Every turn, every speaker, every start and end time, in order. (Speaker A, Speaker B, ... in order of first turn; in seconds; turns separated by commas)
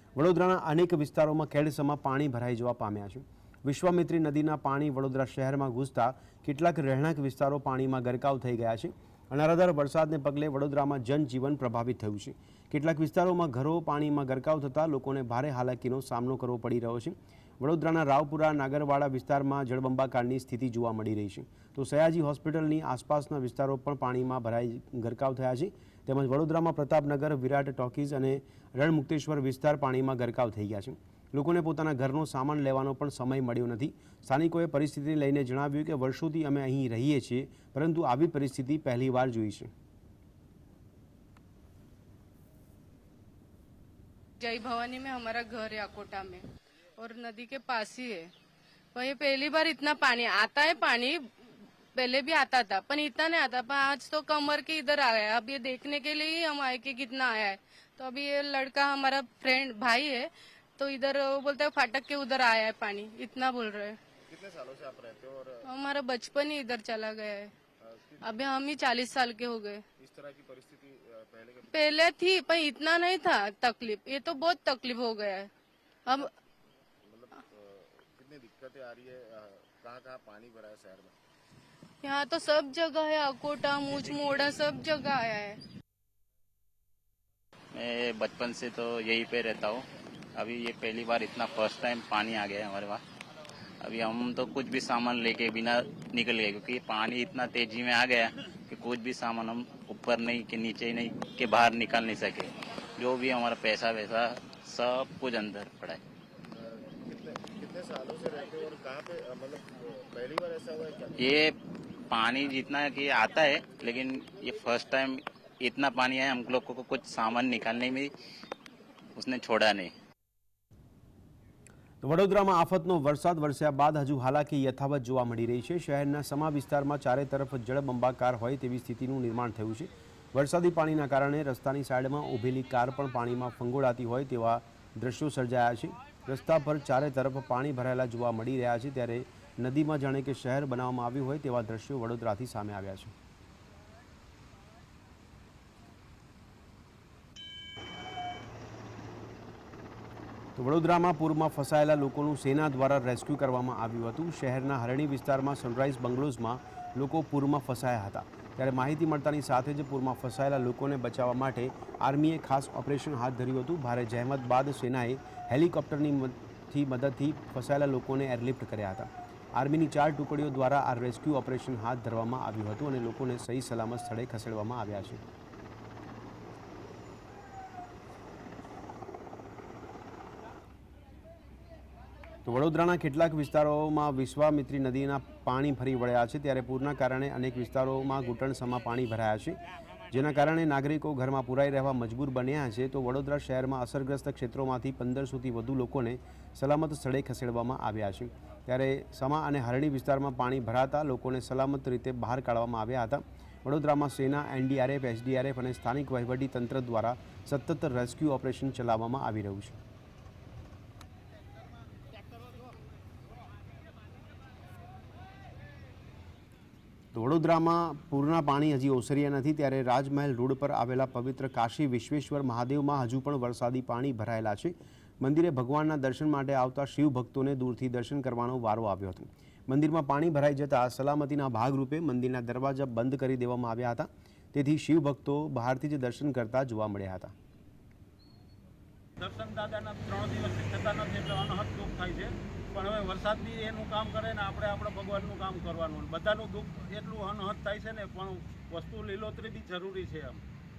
Speaker A: 0.2-39.7, Speaker B: 44.4-46.4, Speaker B: 47.0-48.3, Speaker B: 49.0-51.2, Speaker B: 52.0-64.0, Speaker C: 64.3-65.7, Speaker B: 65.8-67.5, Speaker C: 67.8-68.5, Speaker B: 68.3-69.8, Speaker C: 70.0-71.9, Speaker B: 71.8-75.5, Speaker C: 77.0-81.2, Speaker B: 82.0-85.6, Speaker D: 87.8-93.0, Speaker D: 93.8-106.0, Speaker C: 106.5-111.4, Speaker D: 111.2-111.5, Speaker D: 112.1-118.1, Speaker D: 119.2-119.9, Speaker A: 122.0-143.1, Speaker A: 150.6-175.2, Speaker A: 182.4-189.6, Speaker A: 190.1-209.8, Speaker A: 217.1-237.3, Speaker E: 239.2-250.4